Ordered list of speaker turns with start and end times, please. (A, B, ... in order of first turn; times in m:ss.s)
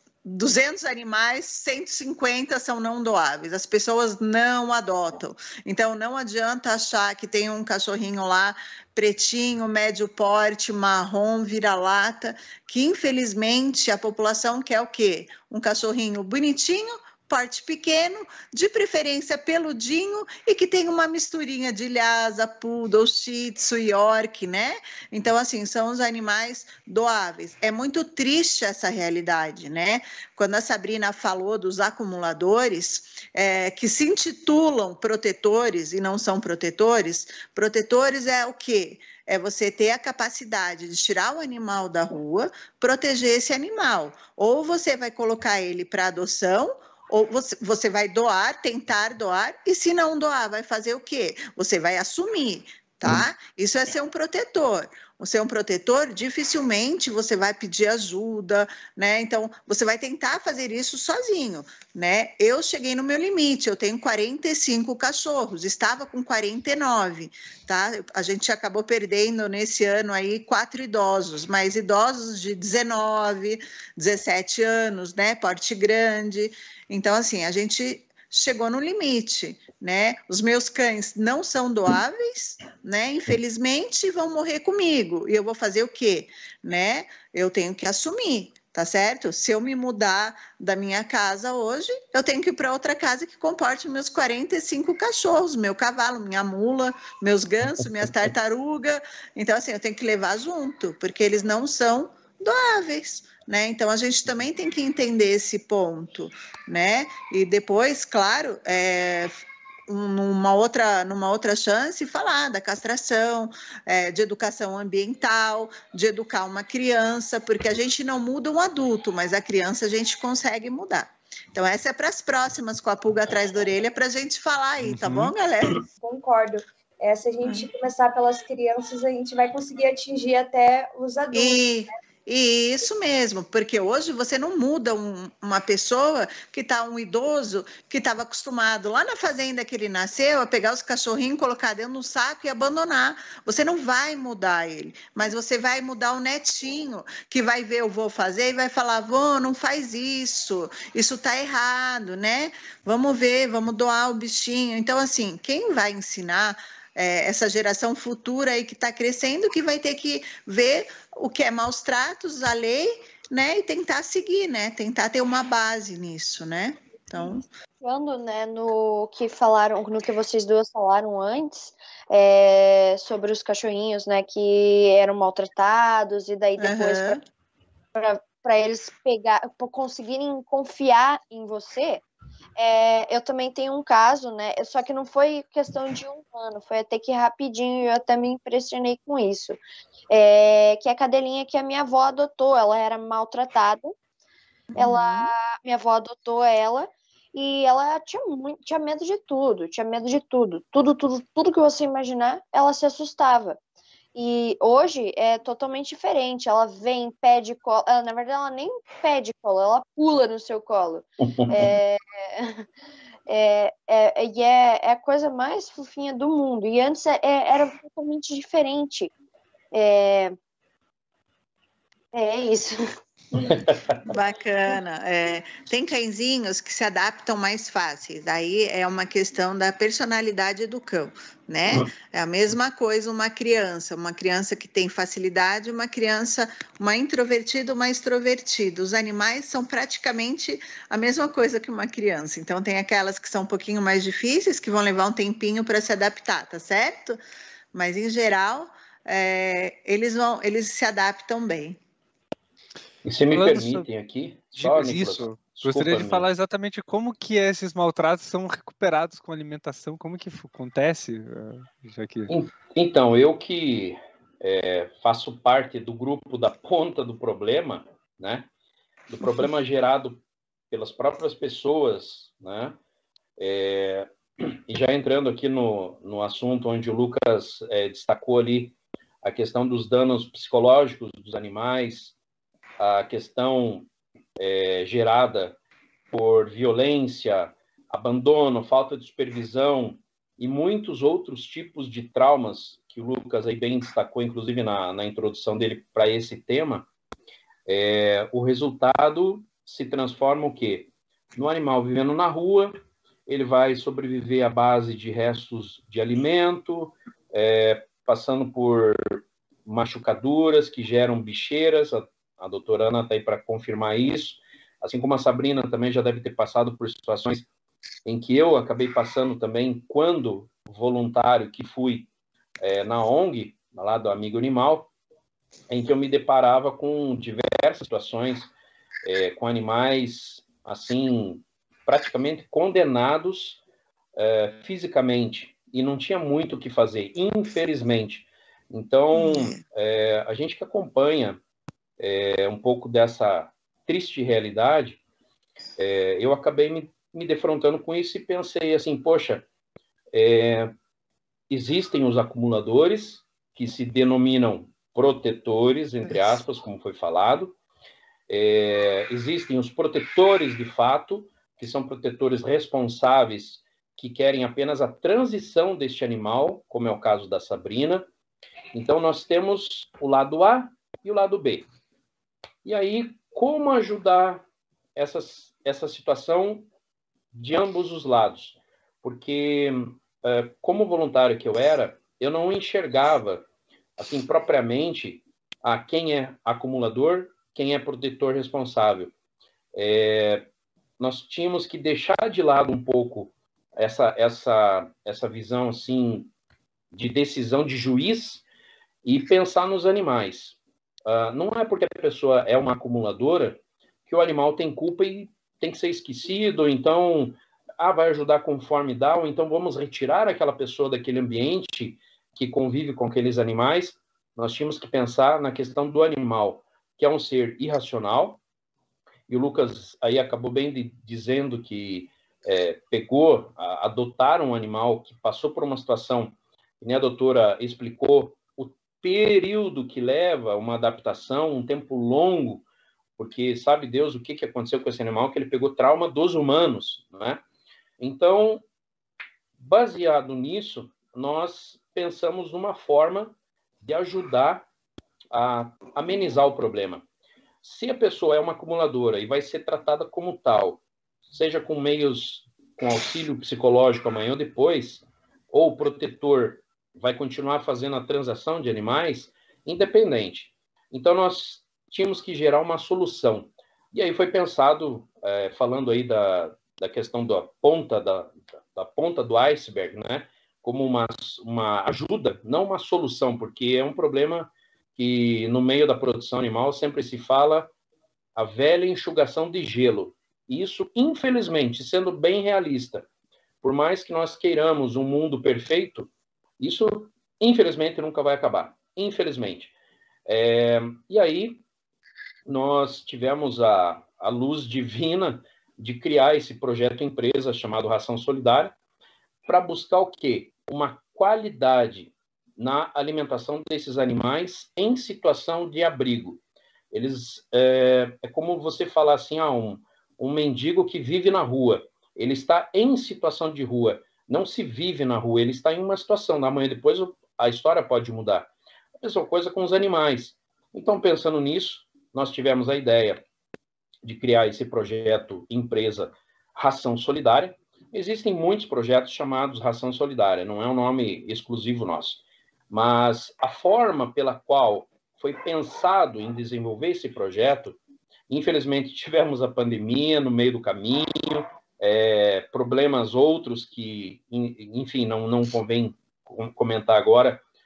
0:00.2-1:49.3 A
1:49.9-2:05.8 A
2:04.8-2:05.3 B
2:06.0-2:11.8 C
2:11.3-2:47.4 A
2:47.3-2:57.2 D
2:56.6-2:57.2 A
2:57.9-3:02.0 D
3:02.6-3:09.6 D
3:10.1-3:14.0 D
3:14.7-3:15.3 A
3:14.8-3:23.6 D
3:24.1-3:32.6 D
3:31.4-3:31.7 E
3:33.3-3:39.1 D
3:39.7-3:40.3 D
3:42.1-3:42.8 D
3:43.4-3:44.0 E
3:44.0-4:07.2 A
4:07.7-4:11.8 A
4:13.0-4:16.2 E
4:13.3-4:13.8 B
4:14.6-4:22.3 B
4:22.3-4:28.5 E
4:29.1-4:32.8 E
4:33.4-4:42.1 E
4:42.8-4:45.6 E
4:46.1-4:56.9 E
4:57.6-5:02.7 E
5:03.3-5:17.5 E
5:18.0-5:22.1 E
5:22.6-5:24.9 E
5:25.7-5:28.5 E
5:29.0-5:33.6 E
5:34.2-5:41.4 E
5:39.1-5:39.6 A
5:42.0-5:45.0 E
5:45.8-5:49.4 E
5:50.1-5:50.7 E
5:51.5-5:57.5 E
5:56.1-5:56.4 A
5:58.3-6:08.0 E
6:08.7-6:11.7 E
6:12.6-6:14.4 E
6:14.9-6:16.7 E
6:17.3-6:23.4 E
6:24.0-6:29.1 E
6:29.7-6:30.5 E
6:31.0-6:36.3 E
6:36.9-6:38.4 E
6:39.0-6:58.4 E
6:59.3-7:12.6 E
7:13.2-7:17.4 E
7:18.0-7:18.6 E
7:19.6-7:24.7 E
7:25.3-7:27.0 E
7:27.6-7:57.7 E
7:58.4-8:03.1 E
8:03.6-8:09.7 E
8:10.3-8:11.6 E
8:12.4-8:18.7 E
8:19.4-8:26.4 E
8:26.9-8:38.5 E
8:39.0-8:43.2 E
8:44.0-8:57.8 E
8:58.3-9:07.4 E